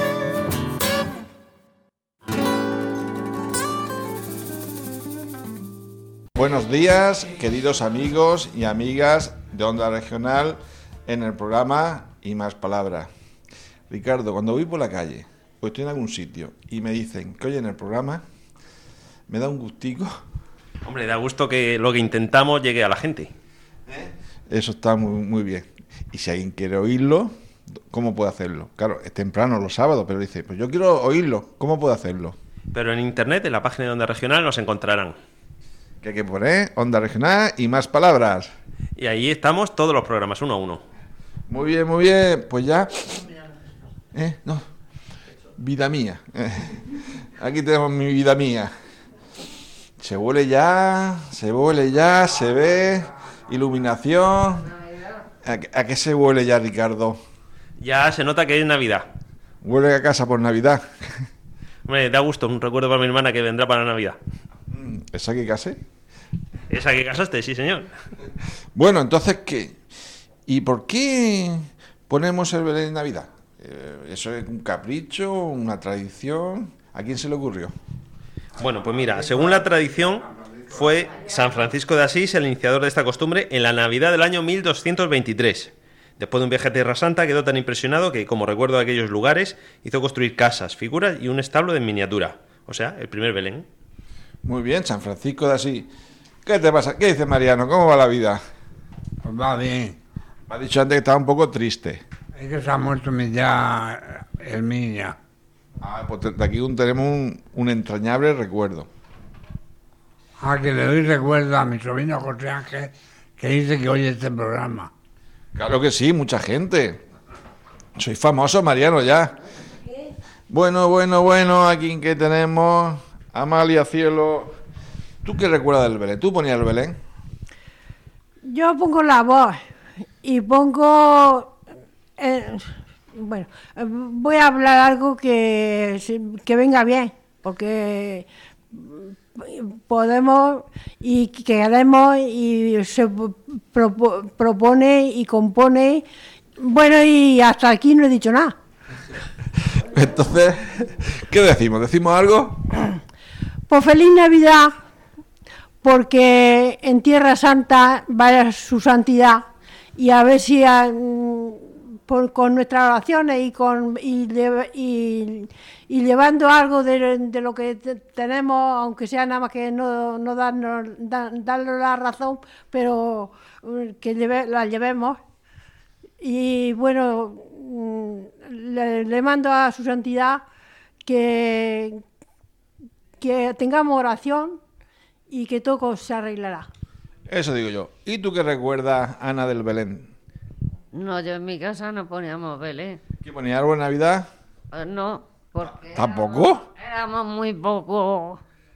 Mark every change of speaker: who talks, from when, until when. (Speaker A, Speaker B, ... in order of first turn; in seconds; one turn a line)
Speaker A: 6.4-13.1
Speaker A: 13.9-18.2
Speaker A: 19.3-20.1
Speaker B: 20.9-23.3
Speaker A: 23.9-27.3
Speaker A: 27.9-32.4
Speaker B: 32.7-35.1
Speaker A: 36.0-38.5
Speaker B: 39.0-40.8
Speaker A: 41.5-43.2
Speaker A: 44.1-44.6
Speaker A: 45.6-46.9
Speaker A: 47.4-48.7
Speaker A: 50.0-54.7
Speaker C: 54.8-55.2
Speaker A: 55.4-57.2
Speaker B: 57.8-59.1
Speaker A: 59.6-60.8
Speaker B: 61.9-64.2
Speaker A: 64.7-65.8
Speaker B: 66.7-67.9
Speaker A: 68.8-69.8
Speaker A: 70.5-77.7
Speaker B: 78.6-93.7
Speaker A: 94.4-95.9
Speaker A: 96.5-98.4
Speaker D: 99.2-100.0
Speaker A: 100.5-102.0
Speaker D: 102.3-105.2
Speaker A: 105.8-108.9
Speaker D: 110.4-114.9
Speaker A: 115.5-117.0
Speaker A: 118.0-119.3
Speaker A: 120.5-124.6
Speaker A: 125.2-127.0
Speaker E: 128.4-129.6
Speaker E: 130.2-131.6
Speaker E: 132.2-146.1
Speaker E: 146.6-148.5
Speaker A: 149.8-152.6
Speaker E: 153.7-154.7
Speaker E: 155.8-159.4
Speaker E: 160.0-175.2
Speaker E: 176.2-180.4
Speaker E: 181.0-182.0
Speaker E: 183.2-184.6
Speaker E: 185.3-186.7
Speaker A: 187.3-190.1
Speaker C: 190.9-193.0
Speaker A: 193.2-194.3
Speaker C: 194.7-198.4
Speaker A: 195.6-196.6